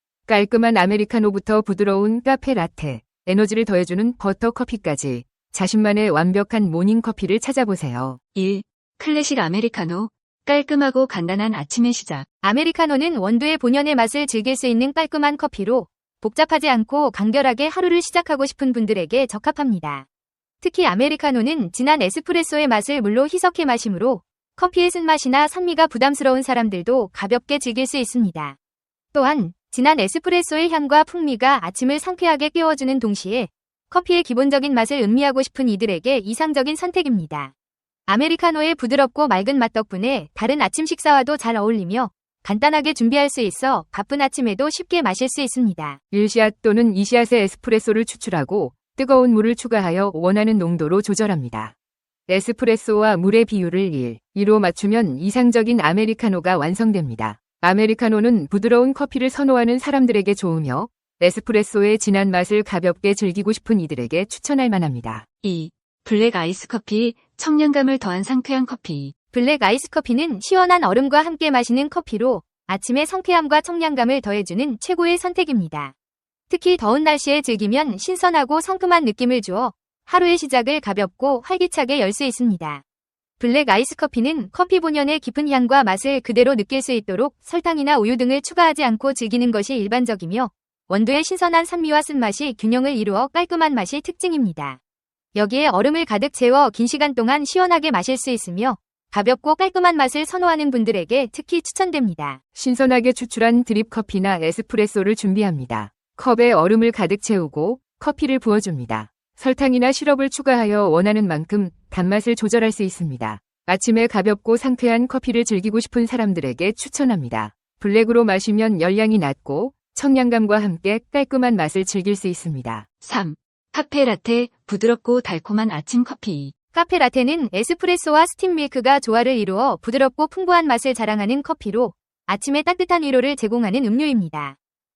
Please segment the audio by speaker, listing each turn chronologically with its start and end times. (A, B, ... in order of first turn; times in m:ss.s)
0:00.3-0:08.2 A
0:08.4-0:12.3 B
0:12.4-0:20.0 C
0:20.6-0:28.6 C
0:29.1-0:37.5 C
0:38.1-0:46.0 C
0:46.1-0:51.7 A
0:52.3-1:05.2 A
1:05.4-1:09.1 B
1:09.3-1:15.9 C
1:16.5-1:22.8 C
1:23.4-1:34.8 C
1:35.4-1:42.4 C
1:42.6-2:02.9 A
2:03.0-2:06.5 B
2:06.7-2:14.6 C